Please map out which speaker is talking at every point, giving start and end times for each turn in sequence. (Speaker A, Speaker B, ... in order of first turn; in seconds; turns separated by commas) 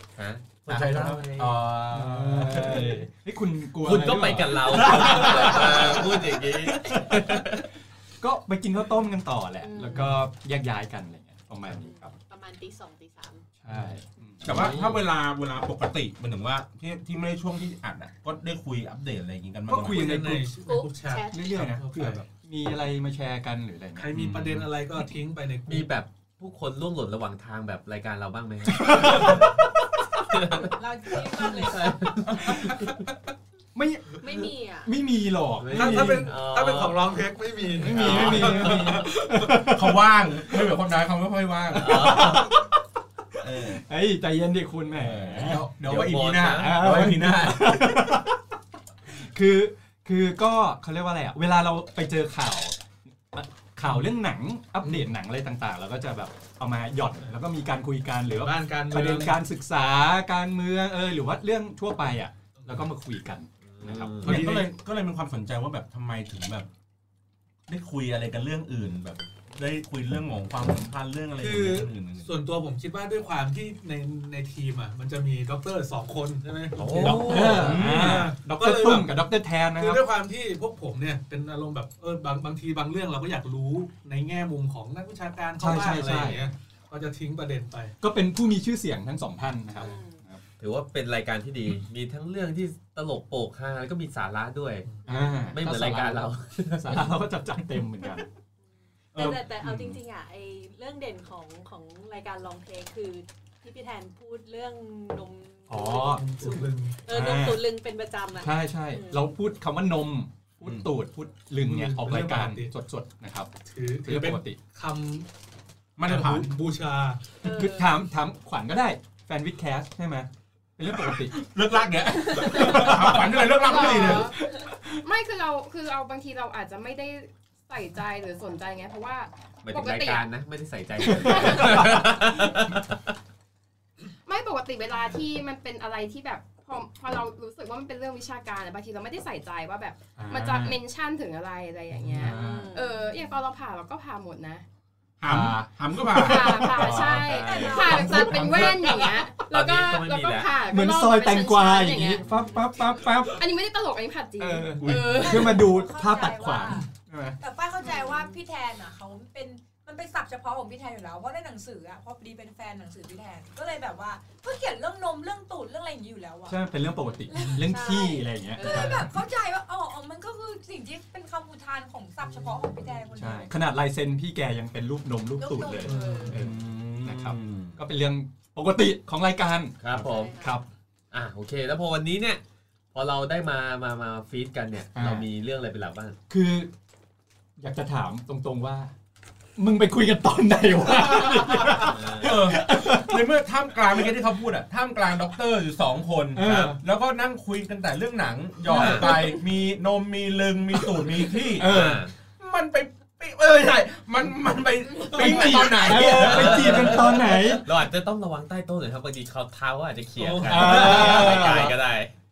Speaker A: 0.2-1.7, Speaker B: 0.7-3.0, Speaker C: 1.9-7.5, Speaker A: 3.8-7.7, Speaker C: 8.2-12.1, Speaker D: 9.6-10.2, Speaker D: 11.7-13.5, Speaker C: 13.6-14.5, Speaker B: 14.4-20.1, Speaker A: 14.4-15.1, Speaker C: 19.7-20.5, Speaker E: 19.8-22.2, Speaker D: 20.6-21.4, Speaker C: 21.3-24.3, Speaker E: 23.9-25.9, Speaker B: 24.1-24.6, Speaker A: 25.7-29.5, Speaker C: 28.7-29.4, Speaker A: 30.3-30.7, Speaker F: 30.7-32.1, Speaker A: 31.3-33.1, Speaker C: 32.4-32.8, Speaker C: 33.8-34.2, Speaker D: 34.2-34.9, Speaker C: 34.9-36.3, Speaker A: 35.6-37.3, Speaker E: 35.7-39.5, Speaker C: 37.8-40.0, Speaker A: 37.9-39.1, Speaker B: 39.7-42.4, Speaker A: 41.7-42.5, Speaker C: 41.8-42.8, Speaker B: 43.4-43.8, Speaker C: 43.7-45.6, Speaker B: 44.9-48.2, Speaker A: 45.8-47.0, Speaker C: 46.5-48.4, Speaker C: 49.1-52.8, Speaker C: 53.3-64.5, Speaker E: 53.8-54.1, Speaker E: 54.8-55.1, Speaker E: 58.3-59.4, Speaker E: 62.6-62.9, Speaker A: 63.6-64.5, Speaker B: 64.2-66.7, Speaker E: 64.2-64.7, Speaker B: 67.7-72.3, Speaker E: 71.4-79.2, Speaker A: 76.8-77.8, Speaker C: 77.0-80.0, Speaker B: 77.3-78.3, Speaker E: 79.8-87.9, Speaker C: 85.6-86.5, Speaker C: 88.0-90.4, Speaker D: 89.8-90.2, Speaker A: 90.6-94.9, Speaker D: 95.1-95.5, Speaker C: 95.1-98.3, Speaker A: 95.5-97.2, Speaker B: 99.1-100.0, Speaker D: 99.1-109.3, Speaker C: 105.7-106.2, Speaker E: 106.0-107.0, Speaker C: 107.1-107.6, Speaker C: 108.4-113.5, Speaker B: 110.6-110.9, Speaker E: 111.6-112.7, Speaker E: 113.7-115.3, Speaker C: 114.0-114.6, Speaker B: 116.0-116.6, Speaker E: 116.0-117.4, Speaker D: 117.4-117.9, Speaker C: 117.5-121.4, Speaker B: 121.0-124.3, Speaker C: 122.5-123.1, Speaker G: 123.5-124.4, Speaker C: 123.8-124.2, Speaker G: 125.0-130.3, Speaker A: 129.6-133.0, Speaker G: 131.0-132.0, Speaker G: 134.2-144.6, Speaker C: 140.2-140.8, Speaker C: 142.0-142.7, Speaker D: 142.2-143.0, Speaker B: 145.2-149.1, Speaker C: 145.3-147.1, Speaker G: 146.2-152.3, Speaker A: 147.2-147.8, Speaker F: 147.3-148.2, Speaker C: 147.9-148.2, Speaker A: 149.4-150.5, Speaker C: 150.7-153.4, Speaker G: 153.3-155.7, Speaker C: 154.4-157.4, Speaker B: 154.8-155.4, Speaker F: 155.0-156.9, Speaker F: 157.4-166.6, Speaker D: 157.8-158.3, Speaker C: 166.5-169.1, Speaker D: 167.3-169.1, Speaker F: 167.3-173.6, Speaker C: 173.2-180.7, Speaker F: 175.4-176.4, Speaker E: 175.9-176.3, Speaker B: 176.3-177.8, Speaker A: 179.8-180.4, Speaker D: 180.0-180.6, Speaker A: 181.1-182.4, Speaker A: 182.9-186.2, Speaker C: 184.9-185.3, Speaker C: 186.3-186.7, Speaker C: 187.6-188.9, Speaker C: 189.6-193.3, Speaker A: 191.8-192.5, Speaker B: 192.2-207.3, Speaker C: 196.3-196.8, Speaker A: 196.4-196.8, Speaker A: 198.7-199.3, Speaker C: 201.5-202.0, Speaker A: 201.6-202.1, Speaker C: 205.1-207.7, Speaker E: 205.2-205.4, Speaker A: 205.9-212.1, Speaker E: 210.2-211.3, Speaker C: 210.5-211.7, Speaker B: 210.6-211.7